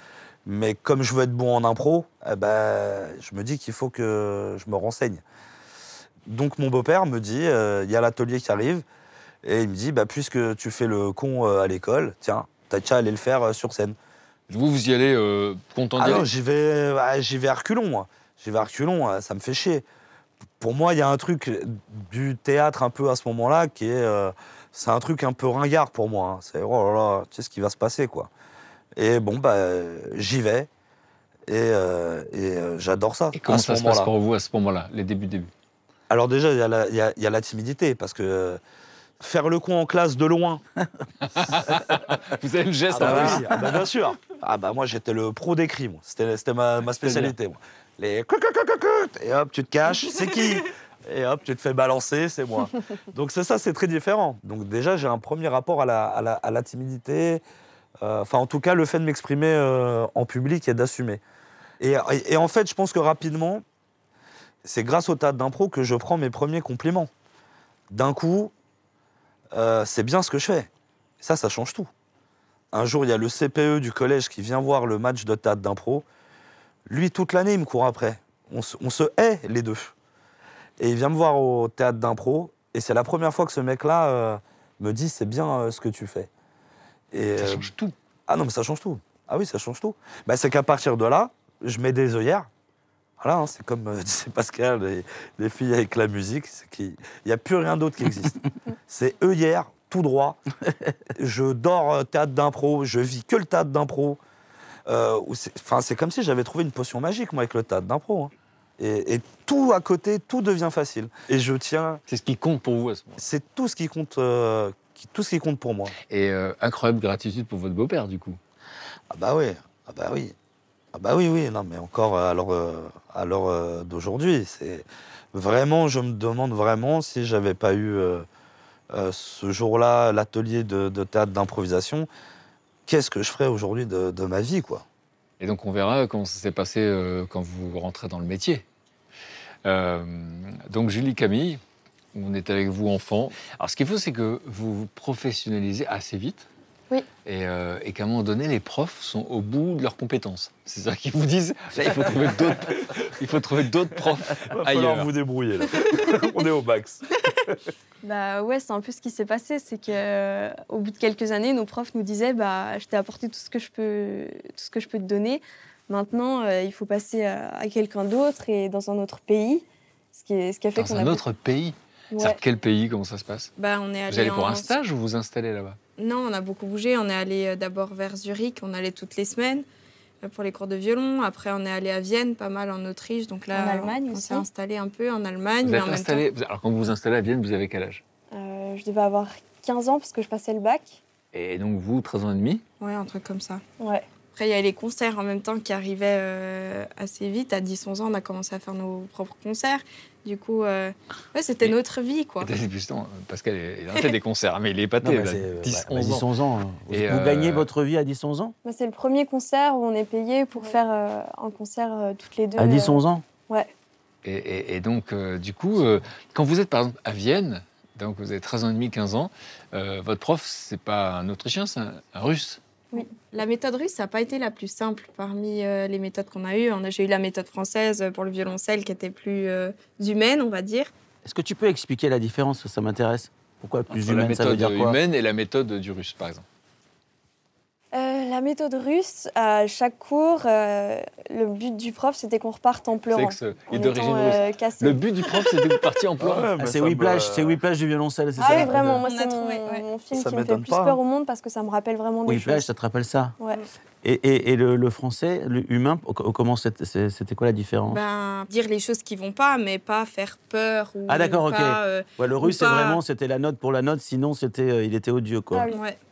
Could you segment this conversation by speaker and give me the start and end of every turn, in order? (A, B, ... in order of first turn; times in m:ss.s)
0:00.5-0:05.2 A
0:06.3-0:08.8 A
0:09.4-0:14.0 A
0:14.5-0:16.3 B
0:16.0-0:19.8 A
0:20.6-0:28.3 A
0:29.0-0:30.7 A
0:31.5-0:34.1 A
0:33.3-0:35.5 B
0:36.1-0:38.6 A
0:39.2-0:40.6 A
0:41.3-0:43.7 B
0:42.9-0:57.4 A
0:42.9-0:43.8 C
0:47.0-0:47.4 B
0:58.0-1:01.2 A
1:01.8-1:03.6 A
1:04.6-1:07.1 A
1:07.9-1:08.5 A
1:09.5-1:10.7 A
1:11.2-1:11.9 A
1:12.7-1:16.0 A
1:16.9-1:19.9 A
1:20.8-1:26.3 A
1:27.1-1:27.7 A
1:27.4-1:28.0 B
1:28.3-1:32.5 A
1:33.2-1:40.4 A
1:41.2-1:44.2 A
1:44.9-1:52.0 A
1:52.1-1:53.2 B
1:53.2-1:55.9 A
1:56.1-1:58.4 B
1:59.1-2:00.4 A
2:00.9-2:08.3 A
2:08.9-2:12.1 A
2:12.9-2:14.8 A
2:15.4-2:18.6 B
2:19.6-2:21.6 B
2:22.1-2:26.5 B
2:27.2-2:35.1 B
2:31.8-2:32.1 C
2:34.5-2:37.6 A
2:38.0-2:51.2 D
2:50.8-2:53.5 B
2:52.1-2:52.4 D
2:53.6-2:54.8 E
2:54.1-2:55.8 B
2:56.0-2:59.7 E
3:00.2-3:06.2 E
3:03.6-3:04.5 D
3:05.6-3:08.0 B
3:08.3-3:11.0 D
3:11.3-3:12.6 B
3:12.8-3:13.6 E
3:13.8-3:14.1 D
3:14.4-3:22.5 E
3:22.4-3:26.3 B
3:25.0-3:28.5 C
3:26.9-3:27.7 B
3:28.6-3:33.7 D
3:32.6-3:33.2 C
3:34.2-3:42.6 B
3:43.0-3:50.9 E
3:51.2-3:55.0 C
3:53.9-3:56.4 B
3:57.9-4:05.0 D
4:03.1-4:06.5 B
4:06.2-4:07.6 A
4:06.6-4:09.1 C
4:08.4-4:12.7 D
4:08.4-4:09.9 E
4:10.1-4:11.0 A
4:12.3-4:13.4 C
4:14.0-4:18.0 C
4:17.9-4:23.0 E
4:21.1-4:25.7 C
4:25.5-4:25.8 D
4:25.7-4:26.0 E